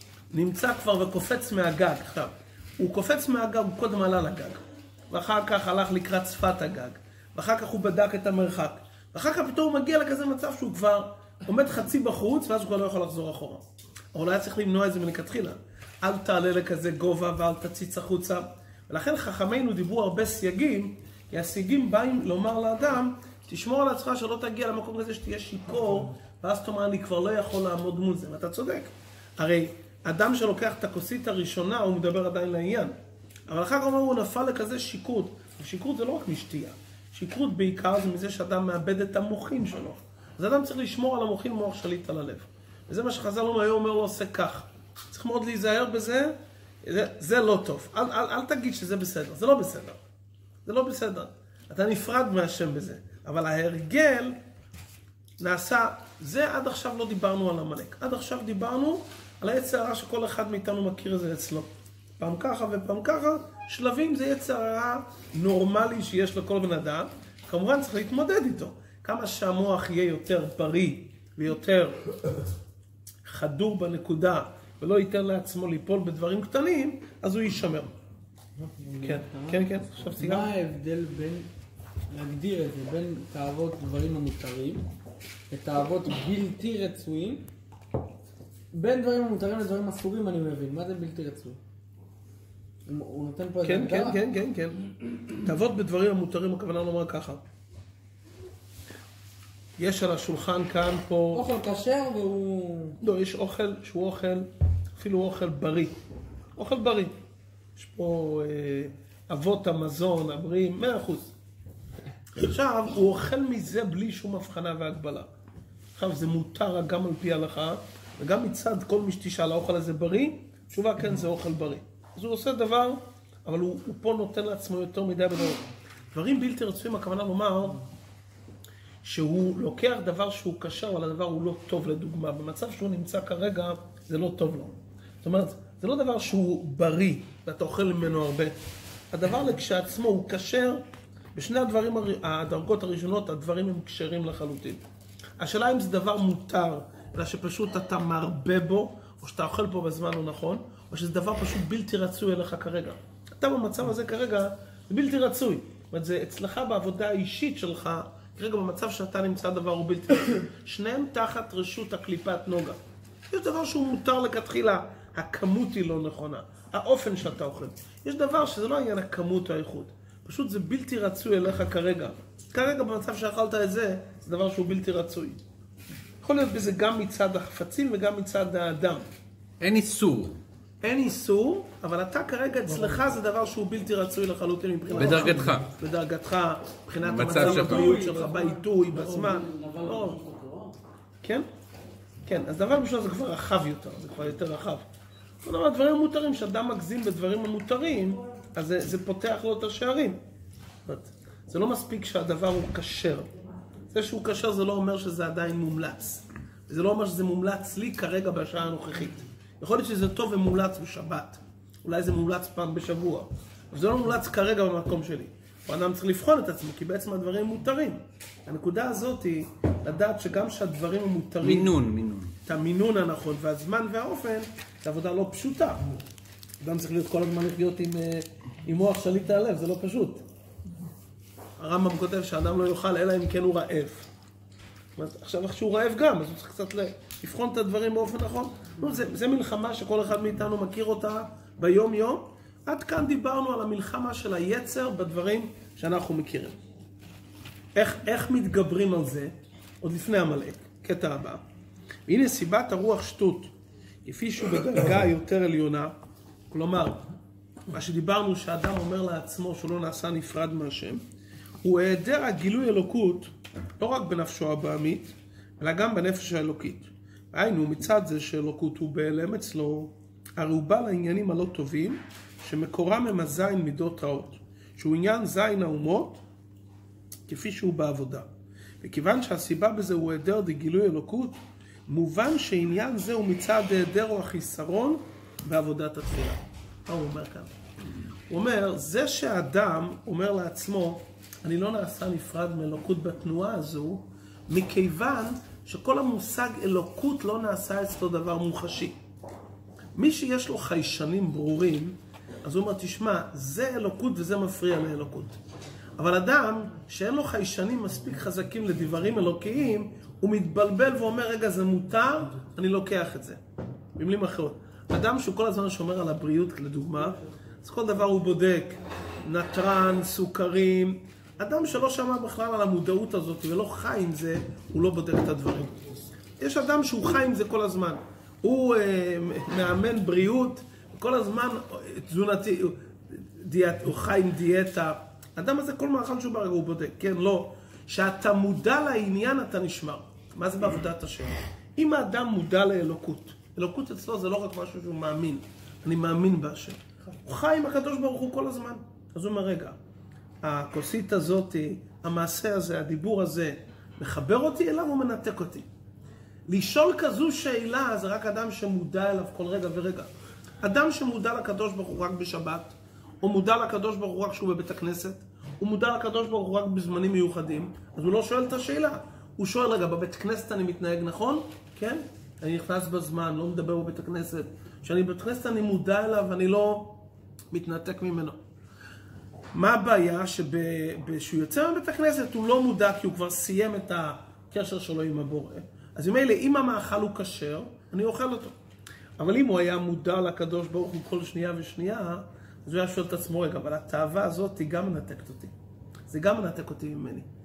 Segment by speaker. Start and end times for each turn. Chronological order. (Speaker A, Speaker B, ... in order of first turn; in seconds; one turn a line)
Speaker A: 0.3-13.6
Speaker A: 14.1-32.9
Speaker A: 33.5-50.0
Speaker A: 50.6-54.4
Speaker A: 55.4-61.7
Speaker A: 62.2-72.1
Speaker A: 73.2-77.9
Speaker B: 78.8-79.7
Speaker A: 79.0-80.5
Speaker B: 80.2-81.5
Speaker B: 82.1-84.9
Speaker B: 85.5-87.5
Speaker B: 88.7-91.6
Speaker B: 92.8-94.2
Speaker A: 93.6-94.8
Speaker A: 95.3-97.4
Speaker A: 99.8-101.4
Speaker B: 101.3-103.0
Speaker A: 103.0-104.5
Speaker A: 105.0-106.0
Speaker A: 106.6-107.1
Speaker A: 107.8-111.3
Speaker A: 112.3-115.3
Speaker A: 116.0-127.8
Speaker A: 129.0-138.5
Speaker A: 139.1-140.8
Speaker A: 141.3-144.8
Speaker A: 145.4-162.8
Speaker A: 163.3-175.4
Speaker A: 176.2-179.1
Speaker C: 179.6-180.4
Speaker A: 180.8-190.2
Speaker B: 182.7-183.0
Speaker C: 184.9-185.7
Speaker C: 187.0-187.9
Speaker B: 187.3-190.7
Speaker A: 192.2-194.8
Speaker A: 195.4-200.2
Speaker A: 200.8-203.3
Speaker A: 203.9-221.8
Speaker C: 221.4-222.3
Speaker A: 222.4-225.8
Speaker A: 226.6-230.2
Speaker A: 231.6-234.1
Speaker A: 234.9-246.6
Speaker A: 247.8-251.4
Speaker A: 252.1-253.5
Speaker A: 254.0-255.9
Speaker A: 256.5-257.0
Speaker A: 257.7-261.0
Speaker A: 261.6-276.2
Speaker A: 277.3-278.3
Speaker A: 278.8-287.5
Speaker A: 288.3-298.9
Speaker A: 299.9-305.4
Speaker A: 306.0-313.4
Speaker A: 313.9-349.8
Speaker A: 350.4-355.6
Speaker A: 356.5-360.1
Speaker A: 360.6-377.0
Speaker A: 377.5-378.4
Speaker A: 379.5-388.5
Speaker A: 389.2-395.5
Speaker A: 396.1-397.3